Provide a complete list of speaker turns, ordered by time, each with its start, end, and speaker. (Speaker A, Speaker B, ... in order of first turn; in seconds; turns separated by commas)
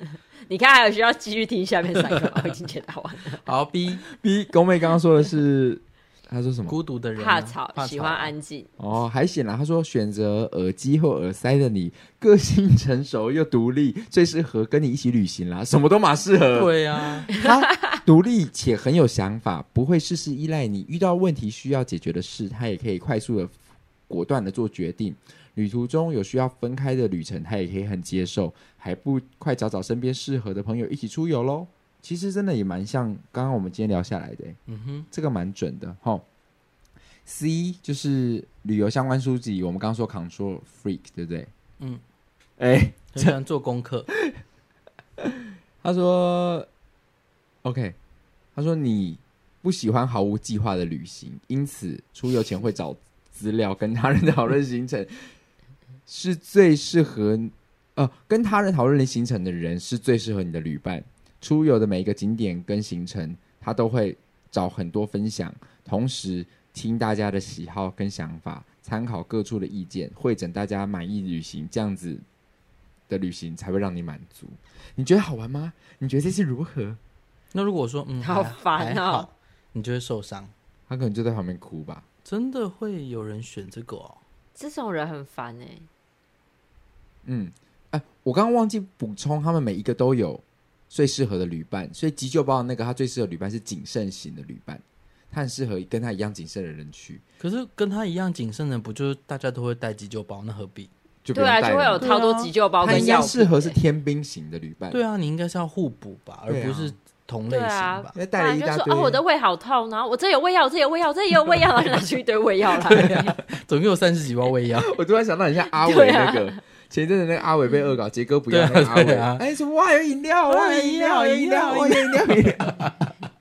Speaker A: 0.5-3.4, Speaker B: 3.4-4.0, Speaker C: 4.1-6.8, Speaker B: 6.7-8.3, Speaker A: 7.2-8.7, Speaker C: 8.8-23.6, Speaker B: 16.5-17.3, Speaker C: 24.1-34.6, Speaker B: 34.7-35.1, Speaker C: 35.1-36.2, Speaker C: 37.3-41.5, Speaker C: 42.6-43.4, Speaker B: 43.1-44.1, Speaker C: 44.1-44.4, Speaker C: 45.2-46.7, Speaker C: 47.6-48.0, Speaker C: 48.5-55.3, Speaker C: 56.1-72.2, Speaker C: 73.1-77.0, Speaker B: 77.5-80.5, Speaker A: 78.2-79.3, Speaker C: 80.9-82.0, Speaker B: 82.2-84.2, Speaker A: 84.6-85.9, Speaker C: 87.2-97.2, Speaker B: 97.4-100.9, Speaker C: 101.2-102.1, Speaker A: 101.3-103.8, Speaker B: 102.0-103.3, Speaker C: 102.8-105.0, Speaker B: 104.9-108.1, Speaker C: 106.5-107.0, Speaker A: 107.5-113.4, Speaker C: 108.1-109.2, Speaker B: 112.8-114.9, Speaker C: 114.7-123.1, Speaker A: 115.7-116.6, Speaker B: 118.5-119.4, Speaker B: 120.5-123.0